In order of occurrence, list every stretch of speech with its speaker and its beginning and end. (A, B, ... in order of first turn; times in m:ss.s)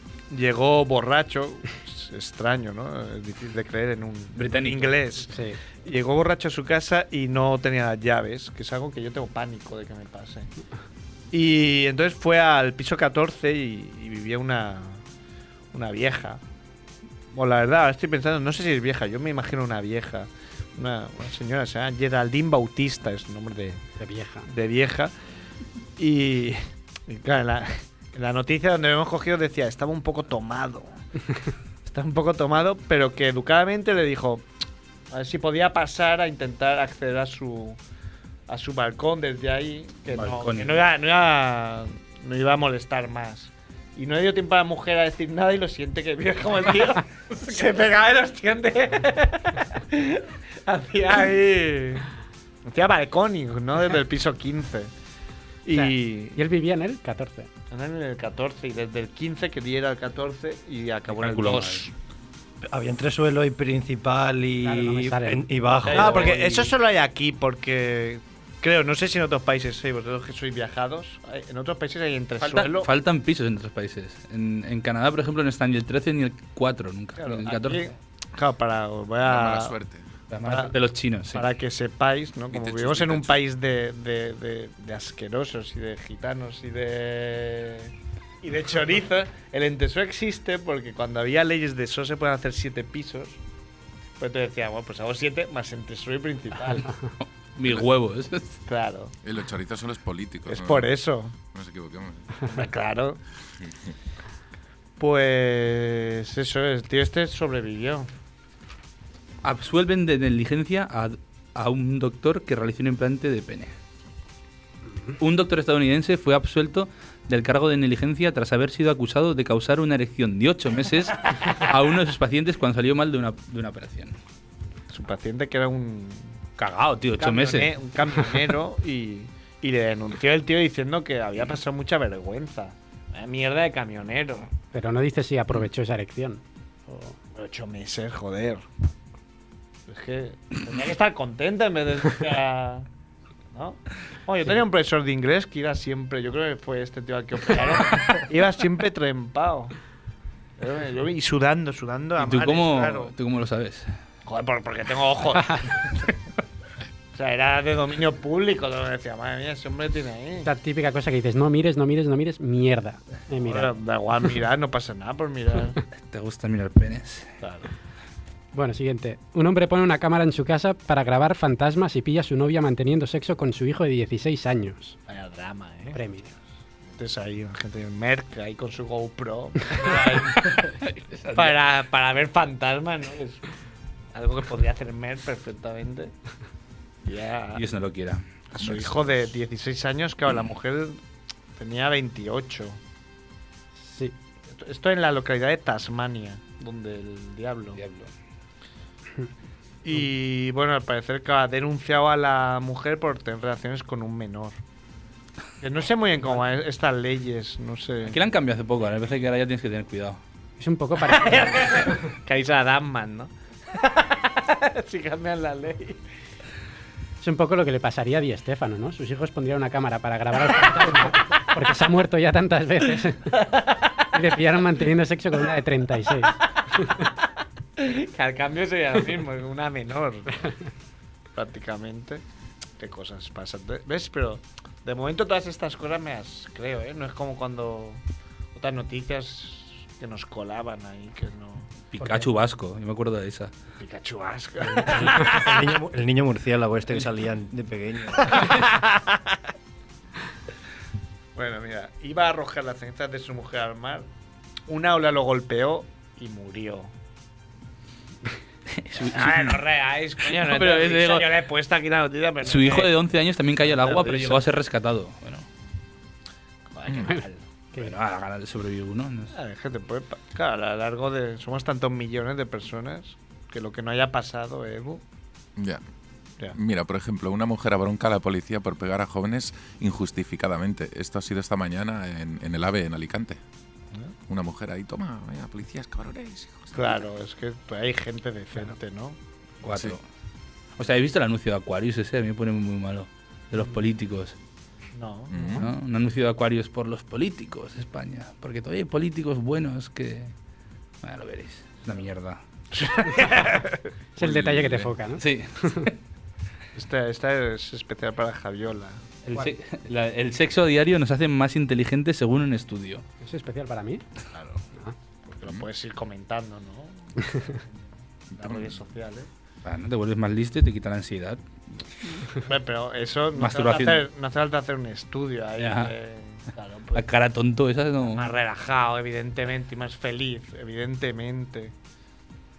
0:00.3-0:10.5 A
0:04.4-0:04.9 B
0:05.3-0:05.6 C
0:11.3-0:15.0 A
0:15.7-0:16.4 A
0:17.3-0:23.8 A
0:24.0-0:24.5 C
0:24.4-0:25.1 A
0:26.0-0:31.0 A
0:31.8-0:34.4 A
0:35.1-0:37.8 A
0:38.5-0:52.1 A
0:40.1-0:40.7 B
0:52.6-0:54.9 A
0:55.6-0:56.4 A
0:55.7-0:57.5 C
0:57.7-1:01.9 A
1:01.1-1:01.9 B
1:02.7-1:06.6 D
1:04.6-1:05.4 C
1:05.8-1:06.5 B
1:05.9-1:12.9 A
1:12.4-1:17.9 B
1:17.2-1:19.7 A
1:19.2-1:20.1 E
1:20.3-1:21.4 B
1:20.4-1:20.7 A
1:21.3-1:33.4 A
1:22.5-1:23.4 E
1:34.2-1:36.9 A
1:37.5-1:38.6 B
1:38.6-1:39.1 A
1:39.2-1:40.9 E
1:40.5-1:41.4 A
1:41.5-1:42.5 E
1:42.4-1:43.2 A
1:45.0-1:48.1 A
1:49.4-1:53.7 B
1:55.2-2:04.2 B
2:04.9-2:06.4 A
2:06.6-2:07.7 B
2:07.2-2:14.5 A
2:14.7-2:17.2 C
2:17.3-2:18.6 A
2:19.9-2:22.9 A
2:23.5-2:29.7 A
2:30.6-2:33.1 A
2:32.2-2:33.9 B
2:34.2-2:35.9 A
2:37.1-2:40.5 A
2:40.4-2:43.7 C
2:43.4-2:45.8 A
2:46.0-2:47.3 B
2:47.4-2:47.7 A
2:48.5-2:55.0 C
2:55.1-2:56.0 A
2:55.9-2:56.3 C
2:56.9-3:00.6 A
3:00.8-3:01.6 B
3:01.3-3:03.4 A
3:04.1-3:06.1 A
3:07.0-3:07.6 A
3:07.5-3:08.2 B
3:08.5-3:11.0 A
3:11.6-3:12.8 A
3:13.8-3:14.1 C
3:14.5-3:17.8 A
3:17.8-3:18.1 B
3:19.8-3:24.6 A
3:25.6-3:28.2 A
3:28.0-3:30.2 B
3:30.6-3:31.9 C
3:31.0-3:36.0 A
3:37.2-3:43.4 C
3:43.3-3:44.3 A
3:44.1-3:47.1 C
3:47.8-3:50.5 A
3:51.3-3:52.2 A
3:52.8-3:58.0 A
3:58.5-4:01.7 A
4:01.9-4:03.5 B
4:03.8-4:05.7 A
4:04.7-4:08.6 D
4:08.2-4:09.4 A
4:11.3-4:14.1 A
4:14.7-4:16.9 A
4:18.7-4:19.6 B
4:18.9-4:22.9 A
4:20.2-4:21.3 B
4:22.4-4:25.4 B
4:23.6-4:24.4 A
4:26.7-4:27.4 A
4:26.9-4:27.2 E
4:27.8-4:29.3 B
4:29.3-4:35.0 A
4:35.6-4:35.8 E
4:36.5-4:43.4 E
4:44.3-4:46.9 E
4:46.7-4:49.2 A
4:49.6-4:50.0 B
4:49.7-4:50.0 E
4:50.8-4:54.3 B
4:54.9-4:55.6 A
4:55.3-4:55.7 E
4:55.6-5:00.3 B
5:01.0-5:02.4 B
5:02.7-5:03.9 A
5:04.2-5:05.9 C
5:04.2-5:04.9 E
5:05.2-5:06.0 B
5:06.7-5:09.0 A
5:09.2-5:13.0 B
5:13.2-5:14.0 C
5:14.3-5:14.6 A
5:15.2-5:17.8 A
5:18.4-5:18.7 E
5:18.4-5:19.3 A
5:19.6-5:21.4 B
5:22.3-5:27.1 A
5:23.4-5:24.0 B
5:25.6-5:25.9 B
5:26.9-5:28.3 B
5:28.0-5:31.7 A